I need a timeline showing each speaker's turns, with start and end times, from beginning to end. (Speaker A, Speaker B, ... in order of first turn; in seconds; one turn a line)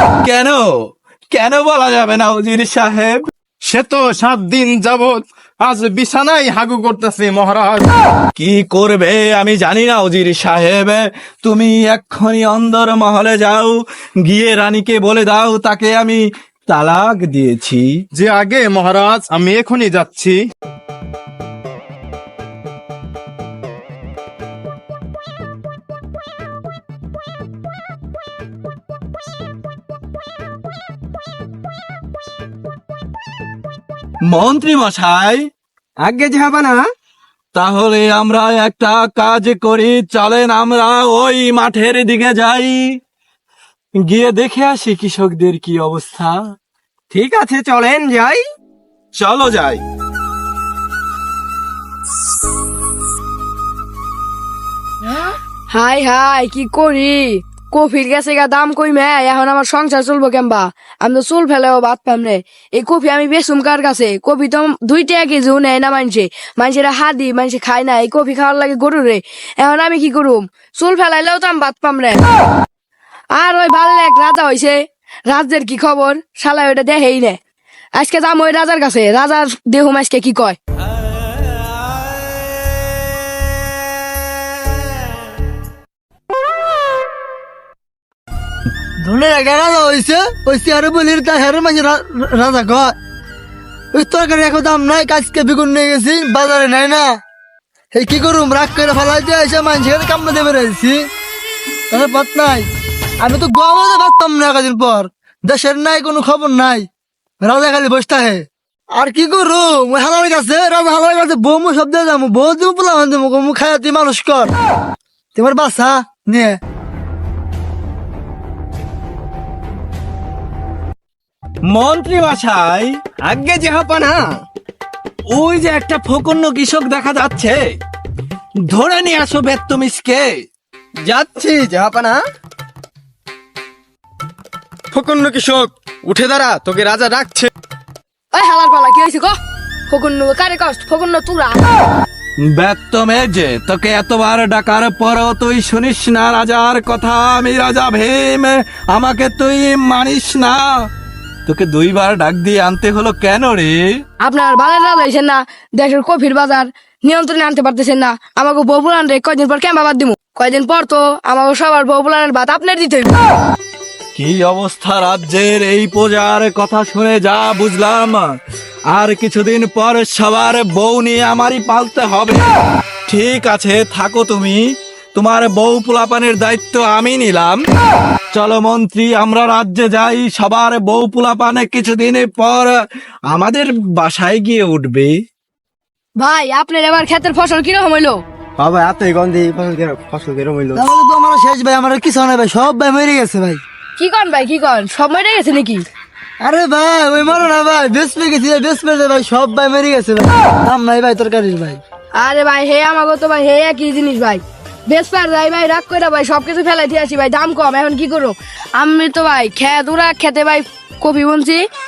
Speaker A: 0.2-0.6
Speaker A: 1.3-3.2
Speaker B: 3.7-7.9
Speaker A: 8.3-17.9
Speaker B: 18.1-20.4
Speaker A: 34.3-35.5
Speaker C: 36.0-36.9
Speaker A: 37.5-42.9
Speaker A: 44.0-46.4
Speaker C: 47.1-48.4
Speaker A: 49.1-49.8
Speaker D: 55.7-72.2
Speaker D: 73.3-77.4
Speaker D: 78.0-80.6
Speaker A: 81.0-82.0
Speaker E: 89.0-92.9
Speaker E: 93.9-97.2
Speaker E: 97.9-101.0
Speaker E: 101.9-102.7
Speaker E: 103.2-106.9
Speaker E: 107.4-114.5
Speaker E: 115.3-116.6
Speaker A: 121.7-123.0
Speaker C: 123.2-124.4
Speaker A: 125.3-127.7
Speaker A: 128.7-130.3
Speaker C: 131.0-132.2
Speaker C: 134.9-137.5
Speaker D: 138.3-139.3
Speaker D: 139.9-141.6
Speaker A: 142.6-150.7
Speaker A: 151.4-153.9
Speaker D: 154.2-163.2
Speaker A: 164.1-168.3
Speaker A: 168.9-172.4
Speaker A: 173.1-174.6
Speaker A: 175.1-177.6
Speaker A: 178.3-182.7
Speaker A: 183.3-185.2
Speaker D: 186.2-188.2
Speaker C: 188.6-190.8
Speaker E: 190.7-193.6
Speaker D: 194.0-195.8
Speaker E: 196.4-201.8
Speaker D: 202.2-211.7